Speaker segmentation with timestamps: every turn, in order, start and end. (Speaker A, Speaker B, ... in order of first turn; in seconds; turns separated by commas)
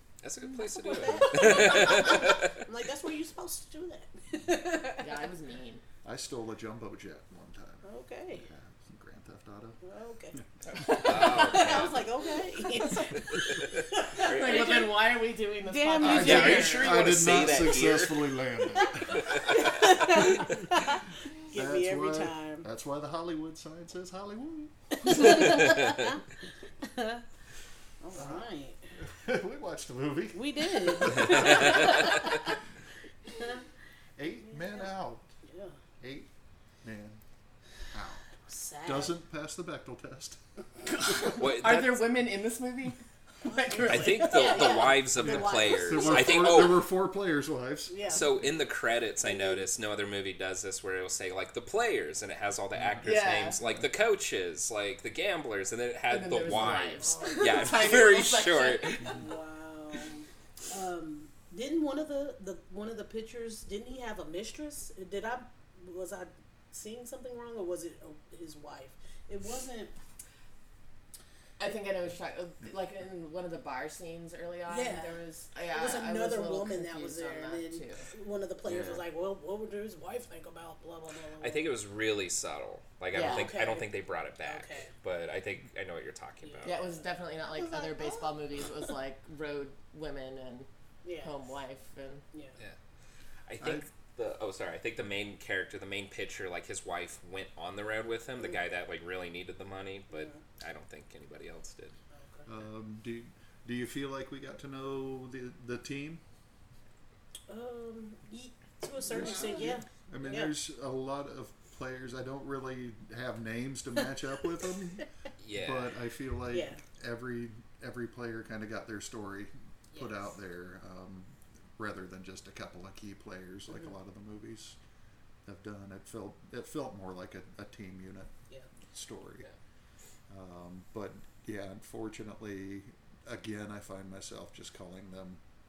Speaker A: 0.2-2.6, Speaker B: 0.5-5.1, Speaker C: 5.0-5.8, Speaker D: 6.0-9.8, Speaker B: 7.8-8.5, Speaker B: 9.8-15.1, Speaker A: 10.7-12.1, Speaker A: 13.2-14.9, Speaker C: 14.2-17.2, Speaker B: 15.6-16.8, Speaker D: 16.0-20.2, Speaker A: 16.0-18.4, Speaker B: 17.3-17.8, Speaker B: 18.8-22.7, Speaker A: 19.1-20.0, Speaker D: 21.5-25.5, Speaker B: 25.0-26.2, Speaker B: 26.8-27.2, Speaker B: 28.0-28.8, Speaker D: 28.1-28.5, Speaker D: 29.0-31.8, Speaker B: 30.4-32.4, Speaker A: 31.2-32.0, Speaker B: 33.3-33.6, Speaker D: 34.2-35.3, Speaker B: 34.5-34.9, Speaker B: 35.4-35.8, Speaker D: 36.0-36.3, Speaker D: 36.8-37.2, Speaker D: 37.9-38.3, Speaker B: 38.5-39.1, Speaker D: 38.8-40.4, Speaker C: 40.9-44.8, Speaker D: 41.1-41.4, Speaker A: 41.2-42.1, Speaker B: 43.5-46.7, Speaker A: 43.9-46.9, Speaker D: 45.1-48.4, Speaker B: 47.9-48.3, Speaker A: 48.1-59.2, Speaker B: 49.2-49.6, Speaker C: 53.0-53.6, Speaker C: 56.1-59.2, Speaker B: 56.7-58.3, Speaker B: 59.1-69.9, Speaker C: 71.6-78.1, Speaker B: 74.7-81.7, Speaker A: 78.7-79.0, Speaker A: 81.4-86.8, Speaker C: 83.1-83.6, Speaker B: 83.2-84.9, Speaker B: 86.4-87.0, Speaker C: 86.6-90.7, Speaker B: 87.5-88.3, Speaker B: 91.0-91.3, Speaker C: 91.2-92.2, Speaker A: 93.5-102.0, Speaker D: 93.6-93.9, Speaker B: 100.1-100.4, Speaker B: 102.2-102.5, Speaker D: 102.5-106.2, Speaker B: 107.5-110.5, Speaker D: 109.1-124.8, Speaker A: 115.4-115.9, Speaker B: 116.5-116.8, Speaker B: 119.9-120.2, Speaker D: 125.5-128.3, Speaker D: 128.9-129.5, Speaker D: 130.3-135.4